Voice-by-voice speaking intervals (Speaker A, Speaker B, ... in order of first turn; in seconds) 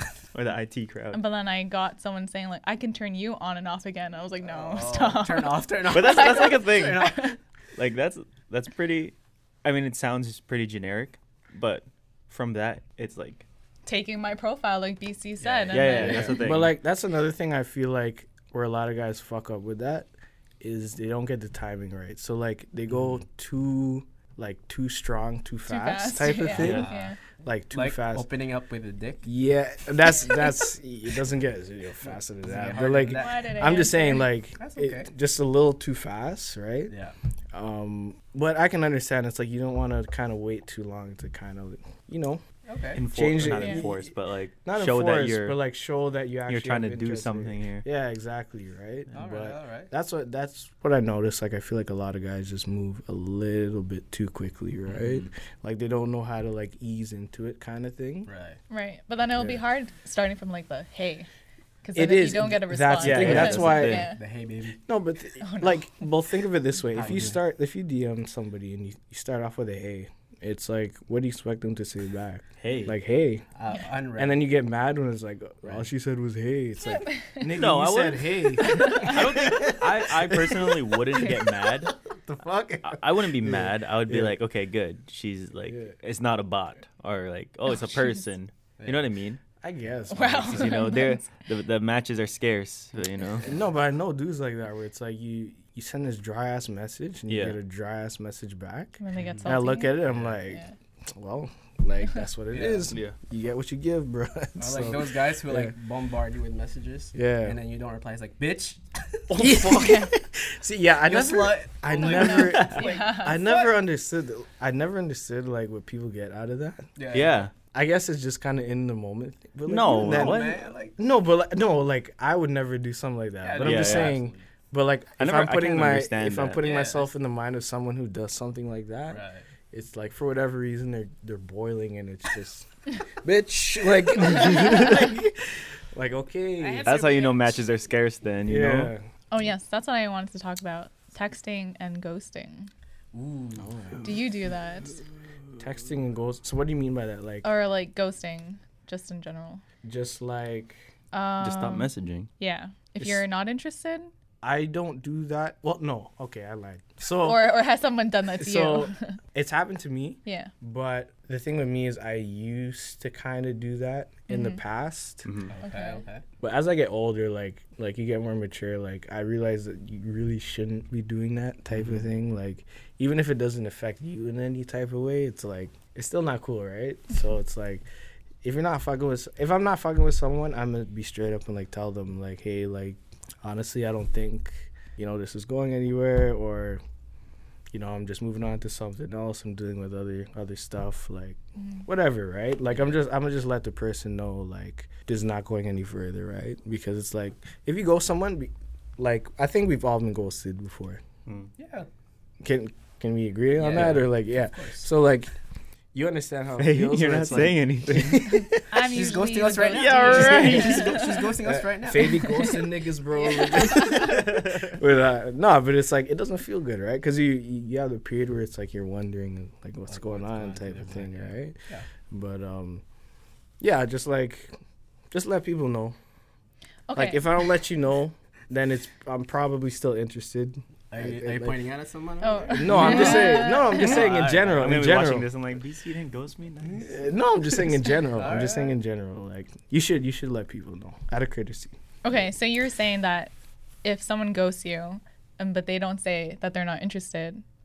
Speaker A: 0.3-1.2, 5.9-13.5, 15.7-16.7, 26.6-26.9, 42.9-45.6, 46.5-47.9, 63.0-64.1, 72.6-73.0, 77.5-82.0, 82.8-89.4, 90.4-93.6, 97.3-97.6, 102.9-103.2, 112.6-112.9, 117.1-117.5, 119.7-120.6, 123.6-124.2, 125.2-126.6, 136.8-138.9, 151.4-152.3, 165.2-165.5, 206.6-208.6, 209.7-211.1, 213.9-214.7, 233.8-237.0
Speaker B: 1.1-7.4, 13.9-16.4, 25.7-27.2, 33.1-34.3, 58.7-61.3, 61.8-64.2, 65.4-65.9, 76.9-77.5, 78.6-79.2, 90.1-91.3, 99.0-100.7, 109.7-110.1, 112.0-113.7, 139.3-142.7, 144.0-145.0, 147.4-149.6, 151.1-154.1, 157.2-159.2, 160.2-160.5, 164.3-164.6, 165.6-166.0, 208.6-211.3, 212.0-214.3, 226.9-227.4, 232.2-234.1, 242.0-243.3, 243.8-247.4
Speaker C: 4.4-7.3, 15.4-16.4, 26.5-27.1, 27.7-29.3, 32.4-33.8, 34.6-35.1, 36.9-37.1, 42.7-43.0, 49.1-49.9, 58.3-58.6, 63.1-64.8, 66.9-67.4, 73.5-74.4, 88.8-89.1, 99.2-99.5, 100.0-100.4, 102.5-102.9, 104.6-109.7, 111.0-113.2, 117.0-117.5, 119.9-121.0, 123.4-124.5, 126.5-127.1, 129.1-129.5, 136.6-137.6, 143.1-143.8, 165.5-166.2, 201.6-201.9, 203.6-204.8, 208.8-212.4, 219.9-221.9, 230.9-234.7, 238.1-238.8
Speaker D: 16.2-20.1, 20.6-28.3, 29.2-36.9, 37.5-42.4, 43.0-44.1, 44.6-58.3, 59.4-59.6, 62.0-64.1, 64.9-73.5, 74.2-84.3, 89.6-90.9, 93.4-105.7, 107.1-107.6, 109.3-116.9, 117.7-132.7, 133.2-136.9, 138.5-139.1, 143.6-144.1, 145.6-147.5, 149.8-150.8, 154.4-157.4, 158.4-165.3, 166.4-177.8, 178.4-186.8, 187.7-201.0, 202.4-205.3, 205.9-208.6, 211.4-221.6, 222.1-222.8, 223.6-224.5, 225.1-226.0, 226.9-231.6, 232.5-235.3, 236.8-241.7